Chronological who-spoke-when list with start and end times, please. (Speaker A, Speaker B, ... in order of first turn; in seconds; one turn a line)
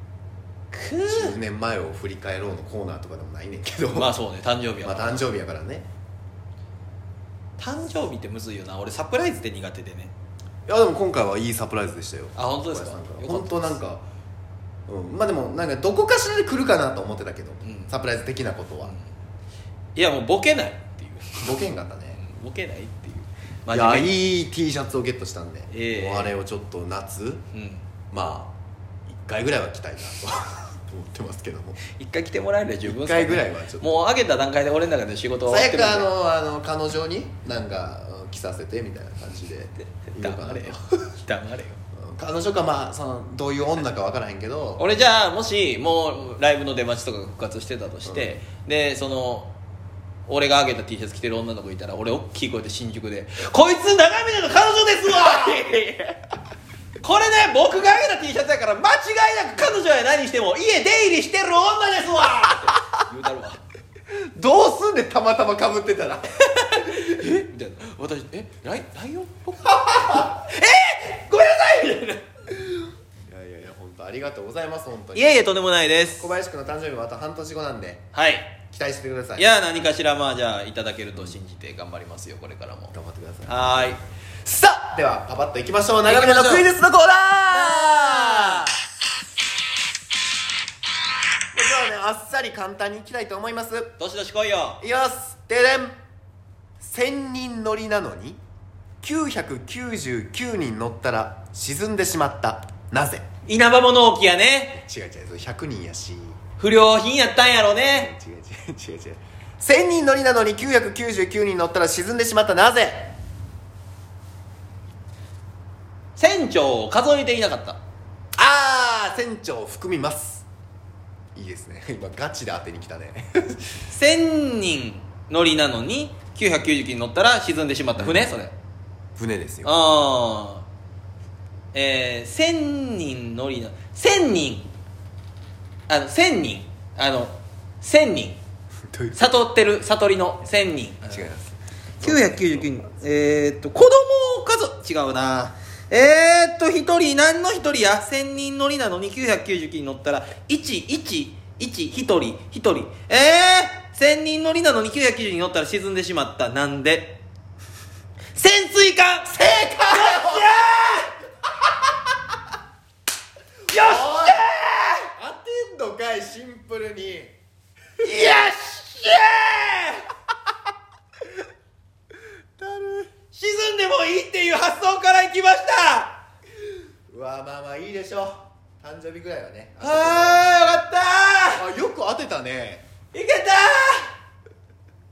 Speaker A: 0.7-1.4
Speaker B: 1.0-4.1
Speaker A: 3.9-5.2
Speaker B: 4.8-5.9
Speaker A: 7.6-10.1
Speaker B: 10.7-14.0
Speaker A: 12.3-13.8
Speaker B: 14.9-18.9
Speaker A: 17.6-17.9
Speaker A: 18.8-19.1
Speaker A: 19.9-24.1
Speaker B: 21.4-22.2
Speaker B: 23.7-27.4
Speaker A: 25.7-26.3
Speaker A: 27.5-27.8
Speaker B: 28.1-28.5
Speaker B: 29.1-31.8
Speaker A: 31.9-36.1
Speaker B: 32.8-34.0
Speaker B: 35.5-40.9
Speaker A: 39.8-41.8
Speaker B: 41.9-44.8
Speaker A: 44.8-49.5
Speaker B: 48.0-48.4
Speaker A: 50.3-55.7
Speaker B: 55.1-56.3
Speaker A: 57.0-63.6
Speaker B: 64.1-67.2
Speaker A: 66.7-72.3
Speaker B: 73.2-75.4
Speaker A: 75.1-76.3
Speaker B: 76.2-78.0
Speaker A: 78.1-78.5
Speaker B: 78.7-79.5
Speaker A: 79.3-82.9
Speaker B: 82.9-88.8
Speaker A: 83.5-84.0
Speaker A: 86.0-86.7
Speaker A: 87.5-88.8
Speaker B: 91.5-93.9
Speaker A: 94.0-94.8
Speaker B: 94.8-95.9
Speaker B: 96.8-98.4
Speaker B: 99.0-103.2
Speaker A: 103.5-104.8
Speaker B: 104.7-106.4
Speaker A: 106.6-108.1
Speaker B: 107.9-113.2
Speaker A: 116.2-117.8
Speaker B: 118.4-120.5
Speaker B: 121.3-123.7
Speaker A: 123.9-128.5
Speaker B: 128.0-128.3
Speaker B: 129.2-129.7
Speaker A: 129.6-130.7
Speaker A: 131.7-134.7
Speaker A: 135.9-138.4
Speaker B: 138.9-139.3
Speaker A: 139.2-141.2
Speaker B: 141.1-142.7
Speaker A: 142.0-157.2
Speaker A: 158.3-161.1
Speaker B: 159.3-160.7
Speaker B: 163.7-164.4
Speaker A: 163.7-165.1
Speaker B: 165.1-167.3
Speaker A: 168.0-170.1
Speaker B: 168.0-168.4
Speaker B: 172.6-173.1
Speaker A: 173.3-176.2
Speaker B: 177.1-180.8
Speaker A: 179.8-181.7
Speaker B: 181.6-182.8
Speaker A: 183.1-184.1